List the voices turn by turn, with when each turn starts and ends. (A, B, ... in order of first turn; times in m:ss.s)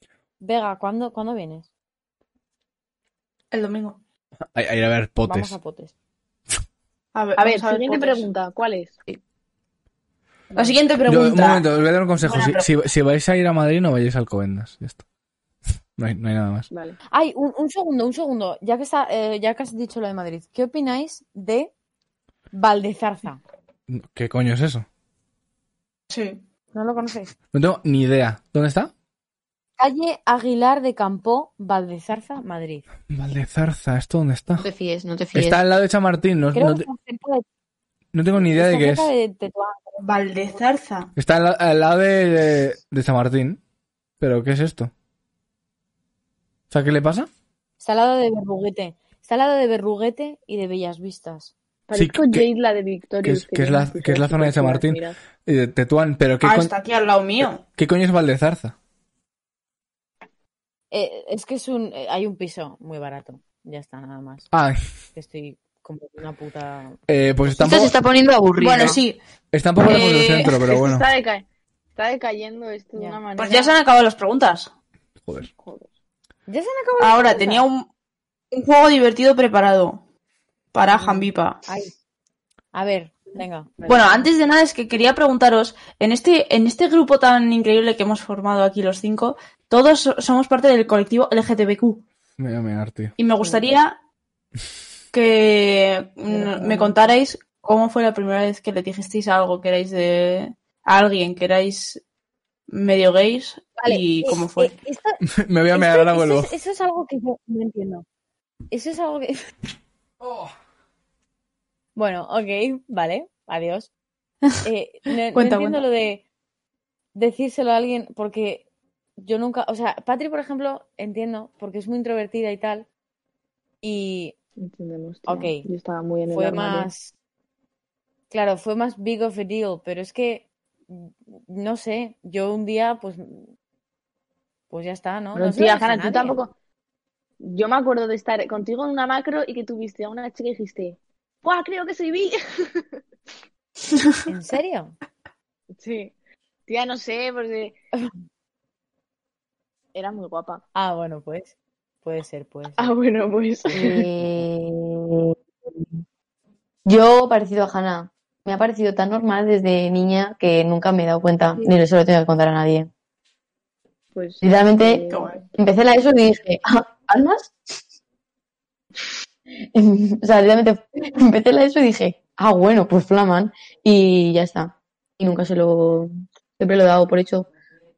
0:00.4-0:01.7 A
0:03.5-0:04.0 B
0:04.5-0:05.6 C
0:05.2-0:05.9 A
0:07.1-0:08.3 B
0:07.4-0:09.0 D
0:10.5-0:11.7 B
0:11.1-0:15.0 C
0:12.2-0:12.7 B
0:16.0-0:16.7 C
0:16.7-0:17.0 D
0:17.1-0:21.7 A
0:22.5-0:23.4 A
0:23.9-0:24.9 C
0:26.1-0:26.4 B
0:26.7-0:27.3 A
0:27.5-0:28.9 C
0:29.8-0:32.9 A
0:33.1-0:34.7 C
0:34.6-0:35.6 E
0:35.3-0:36.9 C
0:36.5-0:37.4 A
0:38.1-0:39.1 C
0:38.4-0:40.0 A
0:40.0-0:41.1 B
0:41.2-0:43.6 C
0:44.2-0:44.9 C
0:46.7-0:47.3 C
0:47.8-0:51.5 A
0:51.9-0:55.2 D
0:51.9-0:52.5 C
0:53.2-0:56.7 C
0:56.4-0:57.6 B
0:57.6-0:58.8 C
1:00.9-1:04.5 A
1:04.5-1:04.8 C
1:05.2-1:07.0 A
1:07.1-1:08.0 C
1:07.6-1:09.0 E
1:08.6-1:09.2 B
1:09.5-1:11.0 C
1:09.8-1:10.7 B
1:10.7-1:11.4 D
1:12.0-1:13.8 D
1:12.9-1:13.2 A
1:13.4-1:14.7 B
1:15.2-1:15.5 C
1:15.6-1:15.9 D
1:16.5-1:17.7 A
1:17.0-1:17.9 B
1:18.5-1:20.0 B
1:20.7-1:21.6 B
1:20.9-1:22.0 A
1:22.7-1:24.0 A
1:23.8-1:32.0 B
1:32.4-1:33.2 C
1:33.2-1:34.0 B
1:35.1-1:42.0 B
1:36.3-1:37.0 D
1:42.7-1:44.7 B
1:43.8-1:45.2 A
1:45.2-1:46.5 C
1:45.7-1:48.0 A
1:48.7-1:49.4 A
1:50.2-1:50.5 C
1:52.0-1:53.9 A
1:54.6-1:56.2 A
1:55.3-1:55.8 B
1:57.2-1:58.6 A
1:59.2-2:02.9 A
2:03.8-2:04.4 A
2:04.6-2:06.9 D
2:05.3-2:05.7 A
2:06.3-2:07.1 A
2:08.3-2:13.5 A
2:14.7-2:16.4 A
2:15.4-2:16.5 D
2:17.4-2:22.9 D
2:23.9-2:24.2 B
2:24.3-2:25.0 A
2:25.8-2:26.1 D
2:26.7-2:27.7 D
2:29.9-2:30.6 D
2:30.8-2:32.9 A
2:32.8-2:34.1 D
2:33.7-2:35.8 E
2:36.8-2:42.9 E
2:44.2-2:45.4 D
2:44.4-2:47.5 E
2:45.1-2:45.4 B
2:49.6-2:57.5 E